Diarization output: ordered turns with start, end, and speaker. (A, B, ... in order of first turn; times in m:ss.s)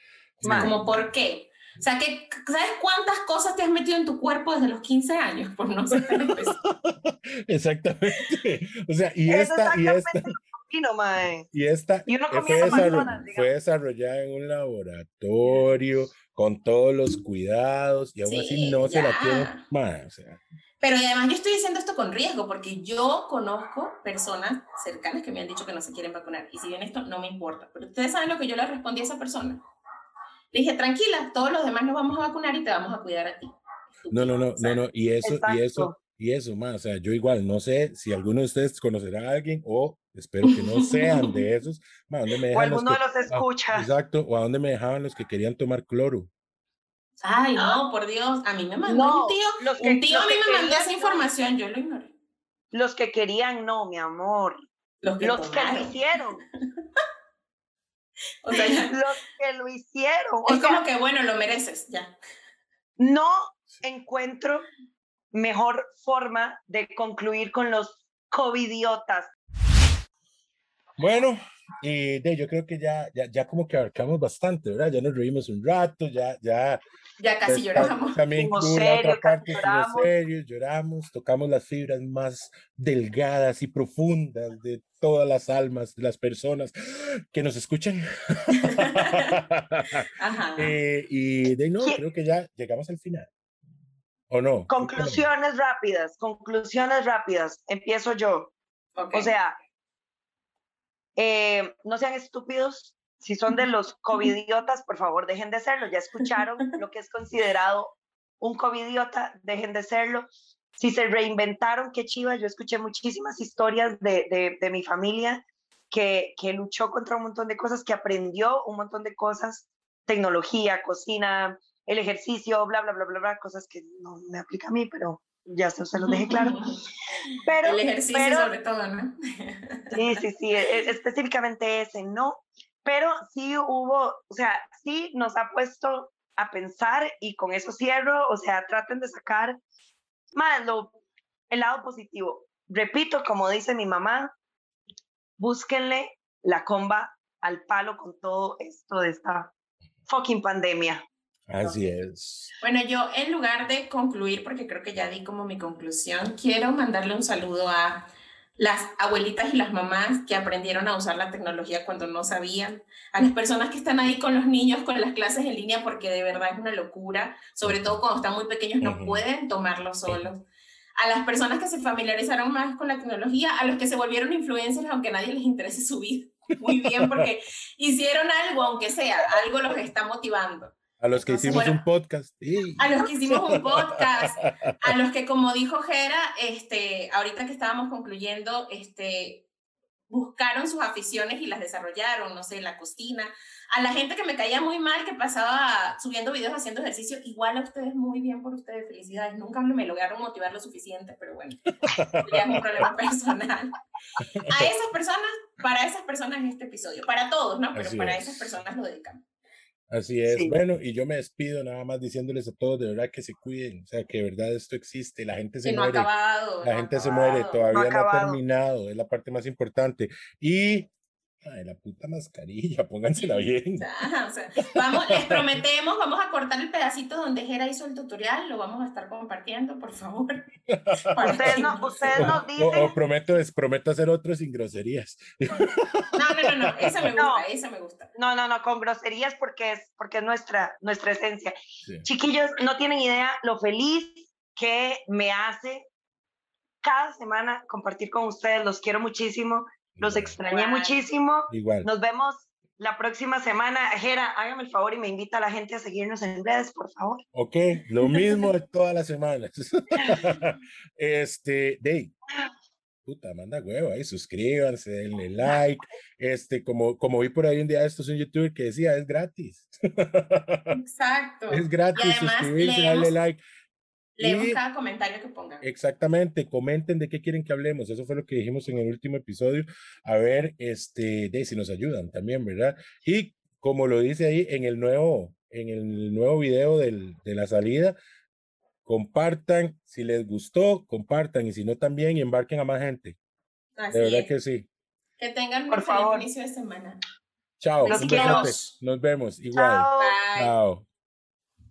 0:00.4-0:00.8 A
0:00.4-0:00.8 B
0:00.4-0:06.6 C
0:06.2-0:10.2 A
0:09.3-0:11.5 B
0:11.5-0:20.4 A
0:12.1-0:13.5 B
0:12.6-0:13.0 C
0:18.2-0:19.6 C
0:20.8-0:29.6 C
0:30.5-0:34.8 C
0:34.1-0:46.3 A
0:35.2-0:36.0 B
0:40.5-0:41.4 C
0:42.5-0:43.9 B
0:47.2-0:52.1 C
0:48.8-0:51.3 B
0:52.7-0:54.6 B
0:55.0-0:56.0 C
0:55.2-0:56.4 B
0:56.6-0:57.0 C
0:58.4-0:59.0 C
0:58.5-1:00.8 B
1:00.4-1:02.1 C
1:03.0-1:04.7 B
1:05.3-1:09.3 B
1:11.0-1:16.8 A
1:17.2-1:18.2 C
1:17.5-1:33.3 A
1:17.8-1:20.1 B
1:28.6-1:29.4 C
1:30.2-1:30.7 C
1:34.3-1:35.2 A
1:34.7-1:38.5 B
1:39.0-1:39.3 C
1:39.1-1:39.6 B
1:41.2-1:50.2 B
1:46.3-1:46.7 C
1:50.8-2:06.7 B
2:06.0-2:06.8 C
2:07.3-2:08.5 B
2:07.3-2:10.2 C
2:09.9-2:19.6 B
2:20.3-2:20.9 B
2:21.5-2:24.3 B
2:25.4-2:29.5 B
2:30.1-2:31.0 B
2:31.5-2:32.5 A
2:32.6-2:50.4 C
2:47.6-2:48.0 A
2:48.8-2:49.2 A
2:51.0-3:01.8 C
2:56.7-2:57.2 A
3:01.0-3:04.9 A
3:02.8-3:09.4 C
3:10.1-3:21.6 C
3:21.8-3:22.9 A
3:22.2-3:23.7 C
3:24.2-3:24.7 A
3:24.4-3:29.2 C
3:27.7-3:28.5 A
3:29.9-3:36.1 A
3:30.3-3:30.5 B
3:35.6-3:37.6 C
3:36.6-3:40.9 A
3:37.7-3:38.4 B
3:41.4-3:43.8 A
3:43.2-3:52.4 C
3:44.6-3:45.6 A
3:50.7-3:57.2 A
3:51.2-3:52.9 B
3:56.1-3:58.1 C
3:57.2-3:57.4 B
3:58.1-4:05.8 B
4:06.8-4:17.2 B
4:10.0-4:10.4 A
4:10.4-4:11.1 C
4:11.5-4:11.8 A
4:17.3-4:22.1 A
4:18.1-4:18.4 C
4:23.0-4:30.8 A
4:30.7-4:33.1 C
4:31.5-4:33.4 A
4:34.2-4:35.6 C
4:34.2-4:34.6 A
4:35.6-4:48.0 A
4:48.8-4:53.2 A
4:53.8-4:54.3 C
4:53.9-4:54.7 A
4:55.2-4:57.0 C
4:55.7-4:56.3 B
4:57.6-5:00.8 A
4:57.8-4:58.6 C
4:57.9-4:58.6 B
4:59.5-5:00.2 B
5:00.0-5:00.6 C